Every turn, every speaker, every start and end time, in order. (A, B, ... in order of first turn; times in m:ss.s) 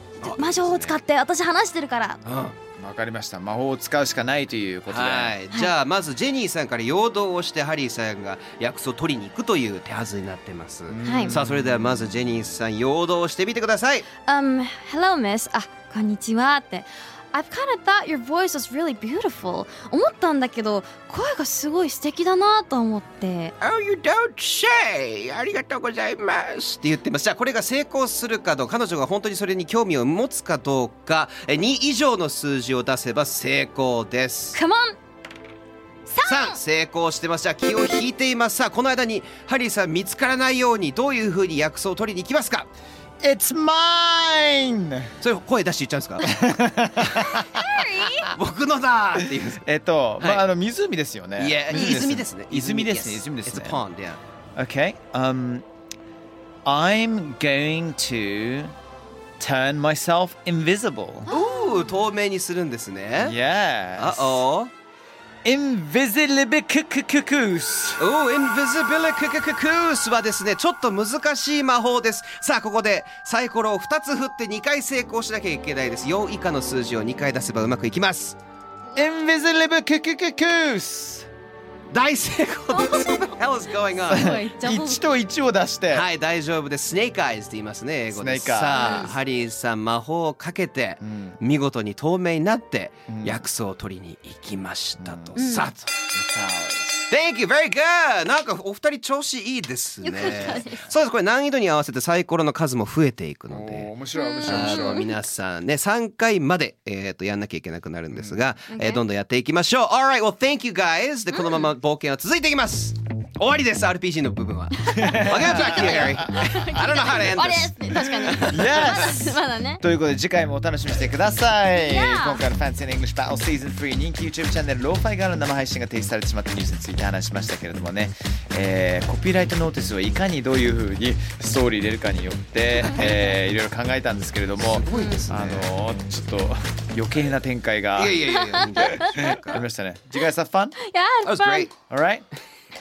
0:00.2-0:01.0 A
0:00.2-0:02.2 B
0:02.2-0:02.6 A
0:02.8-0:05.4 C
0:04.9-0:14.1 A
0:10.9-0:12.1 C
0:11.0-0:11.3 B
0:14.3-0:23.6 B
0:23.6-0:34.6 A
0:34.5-0:35.0 B
0:36.1-0:36.6 B
0:36.2-0:42.7 A
0:43.2-0:45.1 C
0:45.2-0:46.3 A
0:46.3-0:47.7 C
0:47.4-0:48.3 B
0:48.3-0:49.6 A
0:49.3-0:53.8 C
0:50.2-0:50.5 A
0:51.4-0:54.2 A
0:54.6-0:55.6 C
0:56.6-0:58.8 C
0:59.4-1:01.3 C
1:01.3-1:01.8 B
1:01.3-1:03.4 A
1:03.2-1:04.4 C
1:04.0-1:04.7 A
1:05.4-1:08.1 C
1:08.0-1:18.4 A
1:19.0-1:21.3 C
1:21.9-1:24.3 A
1:22.7-1:23.2 B
1:24.1-1:26.1 C
1:24.1-1:25.0 B
1:25.9-1:35.9 A
1:28.1-1:29.0 C
1:28.7-1:29.1 B
1:31.0-1:31.4 C
1:33.1-1:33.4 C
1:35.0-1:35.4 C
1:35.4-1:35.7 B
1:36.1-1:37.1 C
1:37.1-1:43.9 A
1:40.0-1:40.8 B
1:43.5-1:45.0 C
1:44.2-1:45.2 B
1:44.5-1:58.9 A
1:48.1-1:48.4 C
1:48.7-1:49.0 B
1:51.3-1:51.7 B
1:54.9-1:56.5 C
1:54.9-1:59.8 B
1:58.3-2:20.8 C
2:01.8-2:02.4 B
2:14.6-2:15.7 A
2:14.9-2:15.2 B
2:18.0-2:19.6 A
2:18.3-2:19.3 B
2:20.8-2:21.7 B
2:21.2-2:21.7 A
2:21.9-2:22.3 C